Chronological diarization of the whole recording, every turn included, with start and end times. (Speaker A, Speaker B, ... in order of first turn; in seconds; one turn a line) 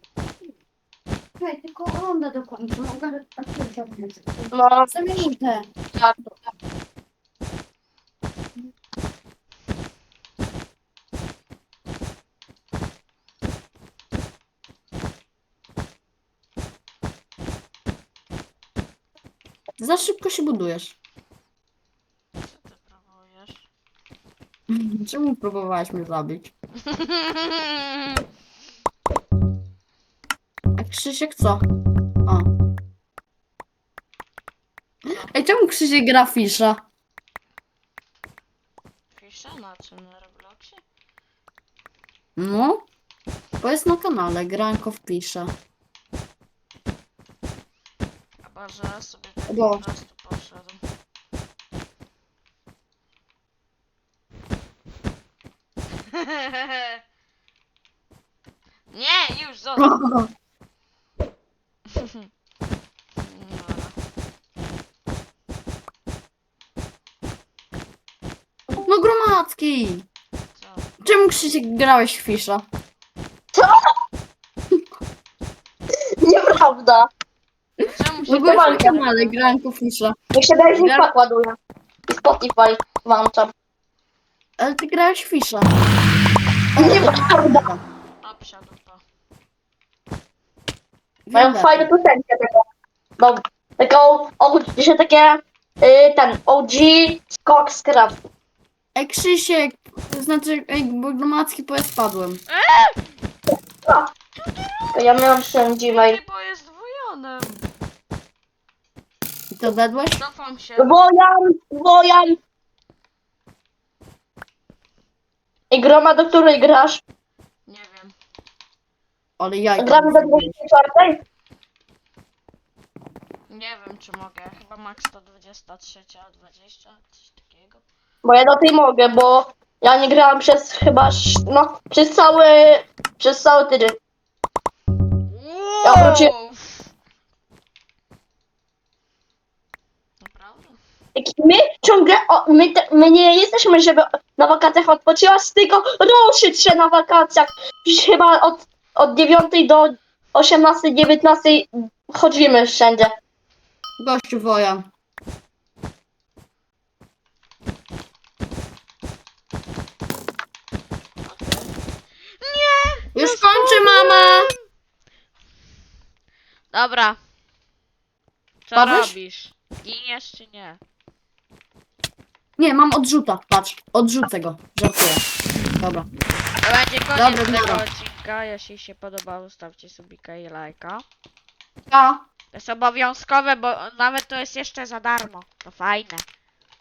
Speaker A: 1.4-6.5
Speaker B: 4.5-4.9
Speaker A: 19.8-20.9
Speaker C: 22.4-23.6
Speaker A: 24.7-26.5
Speaker C: 26.8-28.2
Speaker A: 30.8-31.6
Speaker C: 35.0-35.3
Speaker A: 35.1-36.8
Speaker C: 39.1-40.8
Speaker A: 42.4-42.8
Speaker A: 43.6-45.5
Speaker C: 48.4-50.8
Speaker A: 49.5-49.8
Speaker C: 56.0-57.0
Speaker C: 58.9-59.9
Speaker A: 59.8-60.3
Speaker C: 61.9-62.3
Speaker C: 63.2-64.0
Speaker A: 68.8-70.0
Speaker C: 70.5-70.9
Speaker A: 71.0-72.6
Speaker B: 76.2-77.1
Speaker C: 77.8-79.6
Speaker A: 78.3-80.2
Speaker B: 78.3-79.0
Speaker B: 80.3-81.5
Speaker A: 80.7-81.1
Speaker B: 82.1-83.5
Speaker A: 84.6-85.7
Speaker B: 86.8-87.6
Speaker A: 86.8-87.8
Speaker C: 88.2-89.0
Speaker A: 91.2-91.9
Speaker B: 91.3-92.6
Speaker B: 93.2-98.2
Speaker A: 98.9-102.4
Speaker C: 102.5-103.1
Speaker C: 104.4-107.7
Speaker B: 104.9-106.2
Speaker A: 109.5-110.2
Speaker C: 110.2-111.0
Speaker B: 110.8-112.4
Speaker B: 115.7-117.0
Speaker C: 117.7-118.1
Speaker A: 119.4-120.5
Speaker B: 119.8-121.2
Speaker C: 123.5-127.8
Speaker B: 128.2-134.0
Speaker C: 135.2-136.8
Speaker B: 135.8-136.3
Speaker C: 140.2-140.8
Speaker B: 141.2-153.1
Speaker A: 154.0-154.9
Speaker C: 161.2-161.7
Speaker C: 162.4-164.6
Speaker A: 163.1-164.5
Speaker C: 166.7-167.2
Speaker C: 168.7-170.8
Speaker A: 168.7-169.1
Speaker A: 172.6-175.2
Speaker A: 175.8-176.1
Speaker C: 176.6-181.0
Speaker A: 177.1-177.8
Speaker A: 181.9-182.2
Speaker C: 182.5-186.2